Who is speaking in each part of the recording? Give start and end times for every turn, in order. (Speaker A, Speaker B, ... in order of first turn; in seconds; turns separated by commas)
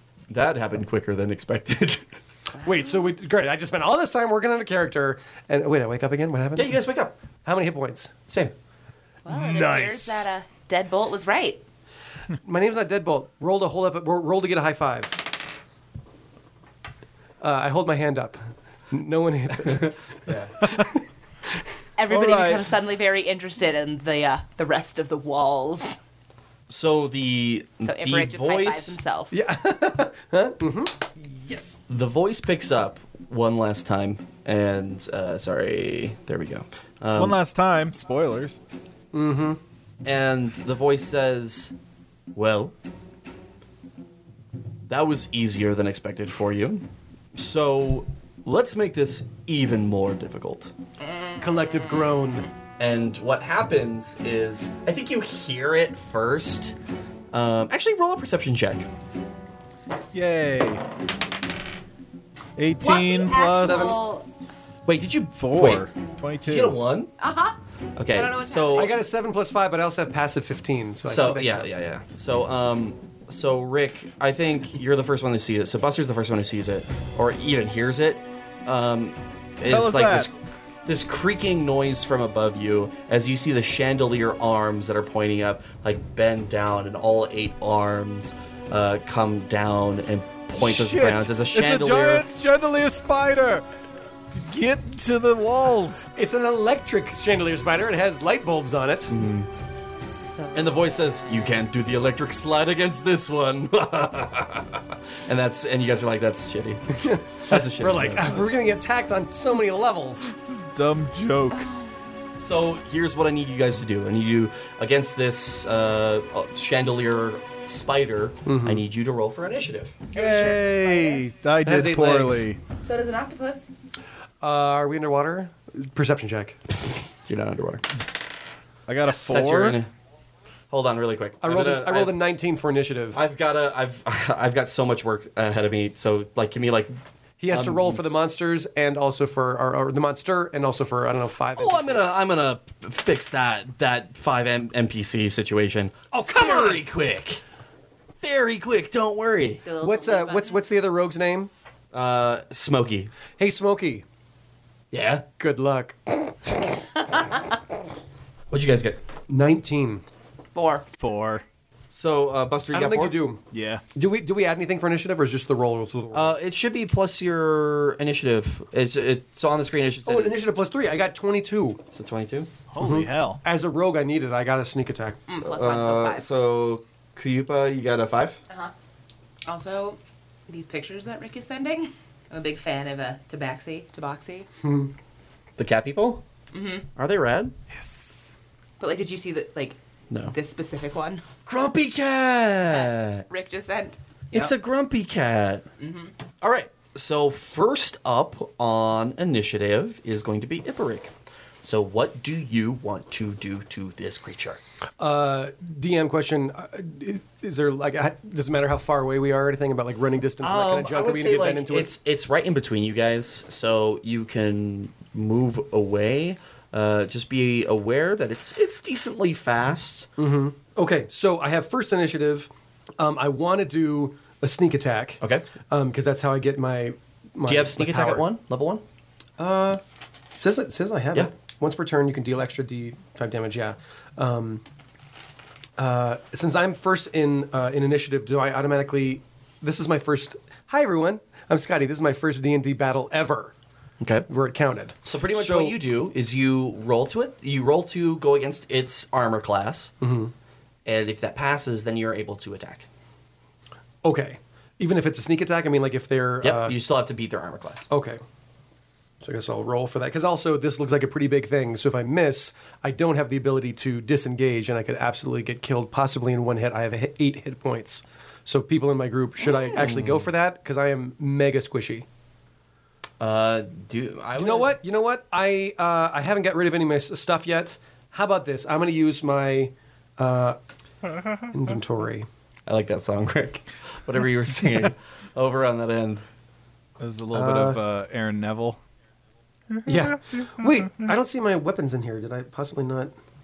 Speaker A: 0.3-2.1, Speaker B: 2.6-3.1, Speaker C: 2.6-6.8, Speaker A: 6.6-7.1, Speaker C: 7.4-8.1, Speaker A: 8.3-8.5, Speaker B: 9.2-11.6, Speaker C: 9.3-10.3, Speaker C: 12.4-15.2, Speaker C: 17.4-20.2, Speaker A: 20.3-20.5, Speaker B: 22.0-26.0, Speaker D: 22.1-22.7, Speaker A: 26.7-29.0, Speaker B: 27.8-29.4, Speaker C: 29.3-31.8, Speaker A: 31.9-37.4, Speaker D: 37.1-38.6, Speaker C: 39.1-39.6, Speaker A: 40.0-41.7, Speaker A: 42.3-42.7, Speaker A: 44.9-50.7, Speaker B: 51.0-52.1, Speaker C: 51.4-52.5, Speaker A: 52.8-56.8, Speaker A: 57.3-58.9, Speaker D: 60.1-60.8, Speaker D: 62.6-64.0, Speaker B: 62.8-64.3, Speaker A: 64.9-65.9, Speaker D: 65.3-66.8, Speaker A: 66.4-67.1, Speaker B: 67.2-67.6, Speaker A: 68.0-68.9, Speaker B: 68.1-68.9, Speaker C: 68.8-71.8, Speaker A: 71.0-80.3, Speaker D: 79.7-80.3, Speaker A: 80.8-92.3, Speaker D: 90.6-93.6, Speaker D: 94.3-96.1, Speaker C: 96.2-99.1, Speaker A: 99.1-99.5, Speaker B: 100.0-100.9, Speaker A: 100.5-108.3, Speaker C: 107.0-110.3, Speaker D: 110.7-111.7, Speaker B: 111.5-111.9, Speaker A: 112.4-120.1, Speaker C: 118.5-118.8, Speaker D: 120.1-122.6, Speaker B: 120.1-121.2, Speaker C: 121.6-122.5, Speaker B: 122.8-123.7, Speaker C: 124.4-126.6, Speaker A: 127.3-127.9, Speaker D: 128.9-129.8, Speaker A: 129.3-129.9, Speaker A: 130.7-132.2, Speaker C: 131.4-133.2, Speaker A: 133.1-136.9, Speaker C: 137.4-142.1, Speaker A: 137.5-138.0, Speaker A: 141.6-147.4, Speaker C: 146.1-146.8, Speaker A: 148.2-149.6, Speaker B: 149.7-150.7, Speaker C: 149.8-151.5, Speaker A: 151.9-153.1, Speaker C: 153.4-154.1, Speaker A: 154.9-155.3, Speaker C: 155.4-156.3, Speaker A: 158.5-159.0, Speaker C: 159.3-160.0, Speaker B: 160.6-160.8, Speaker D: 161.0-161.4, Speaker A: 161.9-163.2, Speaker C: 162.7-163.4, Speaker D: 163.5-163.8, Speaker C: 163.9-166.3, Speaker A: 166.1-170.4, Speaker C: 170.1-171.8, Speaker A: 171.9-172.5, Speaker D: 172.7-173.4, Speaker C: 172.8-175.2, Speaker B: 175.3-176.3, Speaker A: 175.4-178.4, Speaker B: 179.5-184.5, Speaker C: 184.6-184.9, Speaker A: 185.6-186.2, Speaker B: 186.5-186.9, Speaker A: 187.0-187.5, Speaker D: 187.7-188.3, Speaker B: 188.8-189.8, Speaker B: 190.3-191.2, Speaker A: 191.5-193.2, Speaker B: 192.7-194.5, Speaker A: 194.3-195.7, Speaker B: 195.8-196.1, Speaker A: 196.4-204.6, Speaker C: 205.0-211.9, Speaker A: 210.4-220.1, Speaker C: 220.2-228.3, Speaker A: 225.2-225.5, Speaker A: 227.5-228.8, Speaker C: 229.4-229.8, Speaker C: 230.4-234.6, Speaker C: 235.8-243.5, Speaker A: 244.0-244.3, Speaker C: 244.3-245.8, Speaker A: 245.0-249.9, Speaker C: 250.0-250.3, Speaker A: 250.9-252.9, Speaker C: 254.0-256.8, Speaker A: 256.4-257.9, Speaker C: 257.9-258.2, Speaker C: 259.2-272.1, Speaker A: 269.6-270.3, Speaker A: 273.2-274.8, Speaker C: 274.4-280.6, Speaker C: 281.5-282.3, Speaker A: 282.7-286.2, Speaker D: 287.0-288.8, Speaker C: 287.3-287.8, Speaker D: 289.9-290.1, Speaker C: 289.9-293.1